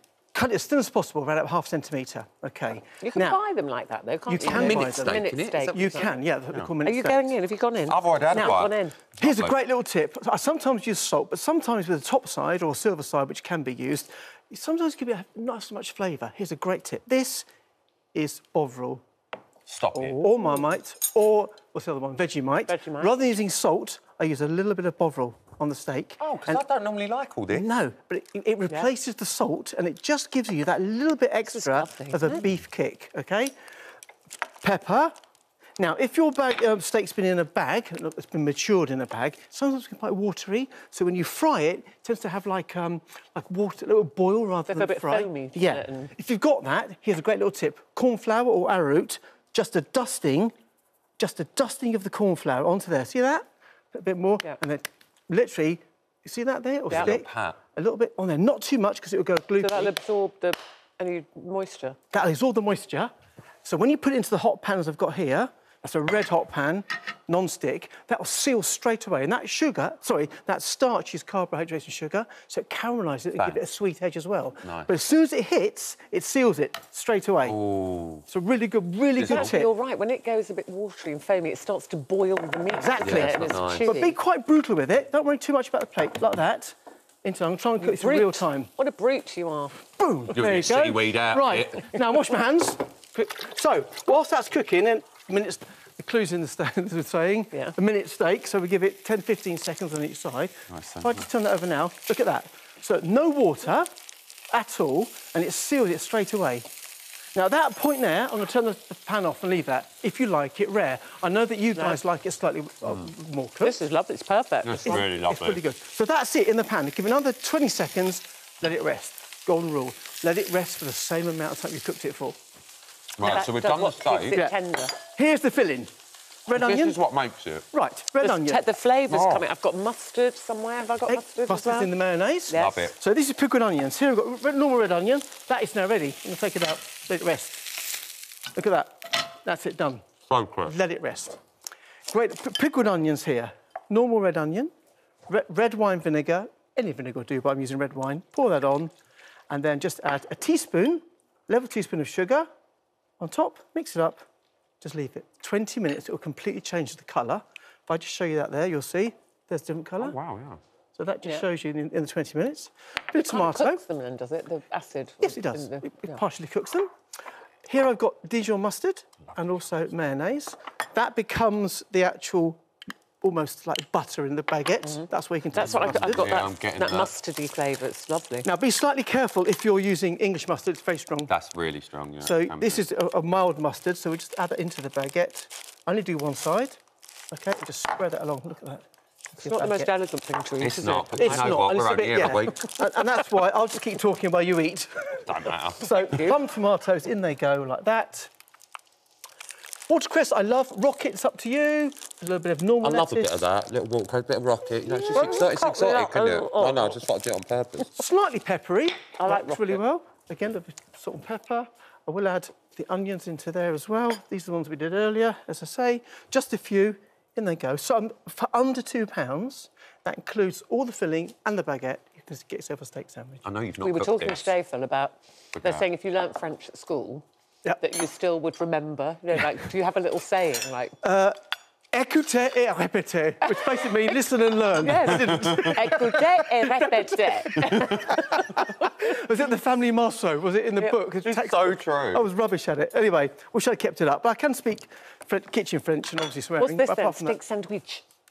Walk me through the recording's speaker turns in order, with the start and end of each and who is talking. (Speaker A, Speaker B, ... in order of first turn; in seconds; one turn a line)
Speaker A: 0.3-3.4
Speaker B: 3.0-6.2
Speaker A: 4.3-7.3
Speaker C: 4.5-5.7
Speaker B: 6.8-9.0
Speaker C: 7.9-9.6
Speaker A: 8.3-8.7
Speaker A: 9.2-17.5
Speaker A: 18.1-19.0
Speaker C: 19.7-20.3
Speaker A: 19.9-26.6
Speaker B: 22.7-23.1
Speaker C: 26.2-27.7
Speaker A: 27.5-33.5
Speaker B: 31.5-32.5
Speaker A: 34.6-35.1
Speaker A: 35.8-50.5
Speaker B: 44.7-46.1
Speaker A: 51.2-60.0
Speaker C: 56.9-57.6
Speaker B: 59.6-62.0
Speaker A: 62.1-63.1
Speaker A: 63.6-77.6
Speaker C: 74.6-74.9
Speaker C: 77.4-78.2
Speaker A: 78.3-79.7
Speaker C: 79.2-79.6
Speaker B: 79.2-84.2
Speaker A: 82.7-88.7
Speaker C: 83.0-83.9
Speaker B: 87.8-89.8
Speaker A: 90.0-103.9
Speaker C: 90.3-92.0
Speaker C: 100.7-101.2
Speaker A: 104.5-106.7
Speaker A: 107.3-113.8
Speaker B: 111.8-112.0
Speaker B: 113.6-115.0
Speaker C: 114.6-115.6
Speaker A: 114.8-122.4
Speaker C: 123.2-124.4
Speaker B: 123.2-125.0
Speaker A: 124.3-125.9
Speaker A: 126.5-127.0
Speaker C: 126.5-127.7
Speaker A: 127.7-128.6
Speaker B: 128.2-131.9
Speaker C: 129.1-129.4
Speaker A: 131.1-138.0
Speaker B: 132.5-132.9
Speaker C: 132.5-132.9
Speaker A: 138.6-140.1
Speaker C: 140.3-140.8
Speaker A: 140.6-141.4
Speaker A: 142.1-144.7
Speaker A: 145.3-148.9
Speaker A: 149.5-152.5
Speaker A: 153.2-154.2
Speaker A: 154.8-160.2
Speaker C: 160.0-160.6
Speaker A: 161.0-163.8
Speaker B: 163.2-166.2
Speaker A: 165.2-166.9
Speaker A: 167.7-172.6
Speaker A: 173.2-176.4
Speaker B: 174.8-178.5
Speaker C: 175.6-177.1
Speaker A: 178.4-181.3
Speaker C: 181.3-182.8
Speaker A: 182.2-186.8
Speaker A: 187.3-189.9
Speaker B: 189.4-191.6
Speaker C: 190.6-192.7
Speaker A: 191.2-198.3
Speaker C: 195.2-196.4
Speaker A: 199.9-203.4
Speaker C: 202.8-207.9
Speaker B: 205.1-207.0
Speaker A: 205.1-205.4
Speaker A: 207.9-223.4
Speaker B: 209.2-209.8
Speaker C: 223.4-224.5
Speaker B: 223.8-227.2
Speaker C: 225.6-225.8
Speaker B: 227.8-231.0
Speaker A: 231.0-231.4
Speaker A: 231.9-247.4
Speaker B: 233.5-233.7
Speaker B: 234.8-239.0
Speaker C: 235.4-235.7
Speaker C: 241.2-242.2
Speaker B: 246.6-248.1